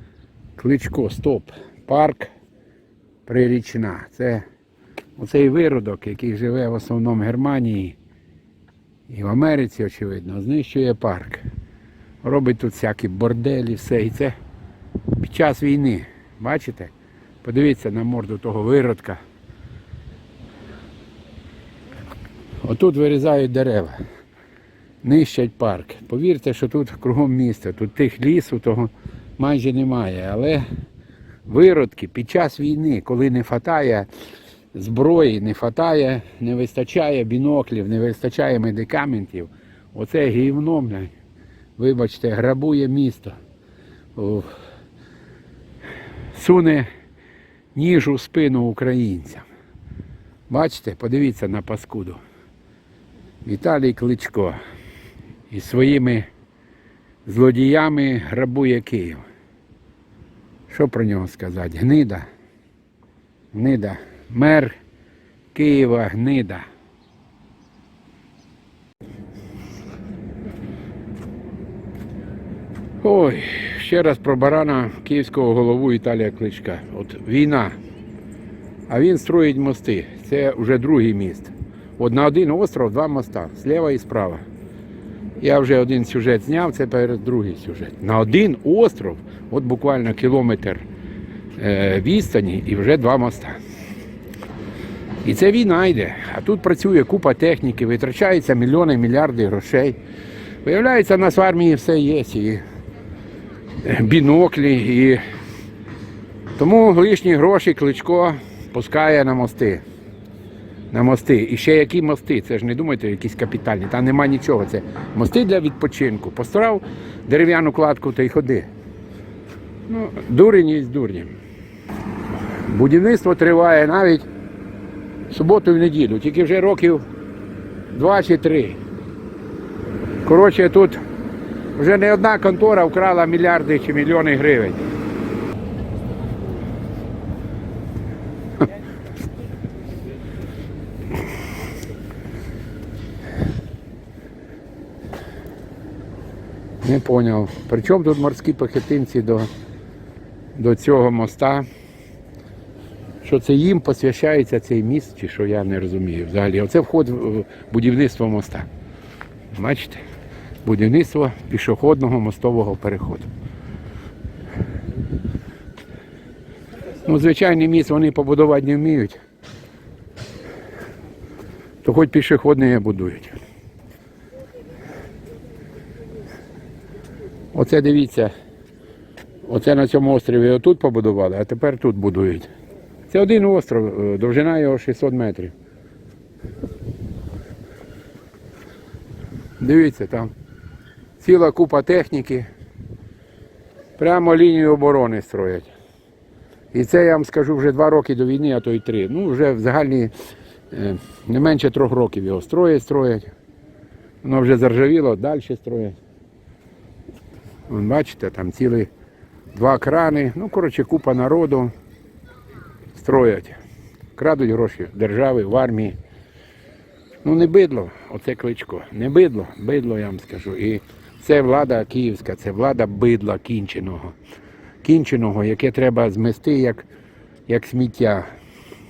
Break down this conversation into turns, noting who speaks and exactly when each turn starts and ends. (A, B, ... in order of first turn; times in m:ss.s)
0:00.6-0:02.3 A
0:03.2-0:04.4 A
0:05.2-0:08.0 A
0:09.1-0:11.4 A
0:12.2-0:14.4 A
0:15.2-0:19.2 A
0:22.6-0:24.0 A
0:25.0-0:30.6 A
0:31.4-0:34.1 A
0:34.7-0:41.1 A
0:41.8-0:43.4 A
0:44.1-0:44.5 A
0:46.3-0:46.9 A
0:47.7-0:49.5 A
0:50.5-0:52.2 A
0:53.4-0:54.6 A
0:55.5-0:56.3 A
0:57.2-0:59.2 A
1:00.7-1:02.2 A
1:03.5-1:04.8 A
1:05.5-1:06.7 A
1:13.0-1:17.8 A
1:18.9-1:24.4 A
1:25.4-1:30.8 A
1:31.6-1:33.6 A
1:35.2-1:40.0 A
1:40.6-1:42.6 A
1:43.8-1:45.2 A
1:46.6-1:49.8 A
1:50.9-1:58.7 A
1:59.9-2:01.3 A
2:02.6-2:04.2 A
2:05.3-2:07.1 A
2:07.9-2:08.8 A
2:10.2-2:11.0 A
2:11.8-2:14.8 A
2:26.8-2:29.5 A
2:30.5-2:31.7 A
2:33.2-2:38.7 A
2:39.5-2:40.0 A
2:40.6-2:43.3 A
2:47.0-2:49.2 A
2:51.8-2:53.4 A
2:57.5-2:58.3 A
2:59.4-3:02.5 A
3:03.1-3:05.5 A
3:09.6-3:10.3 A
3:11.2-3:12.5 A
3:14.0-3:15.7 A
3:16.7-3:20.1 A
3:20.7-3:23.3 A
3:24.2-3:26.0 A
3:27.7-3:28.9 A
3:29.5-3:31.7 A
3:32.9-3:33.6 A
3:34.2-3:36.0 A
3:37.2-3:44.1 A
3:44.8-3:46.8 A
3:47.5-3:48.2 A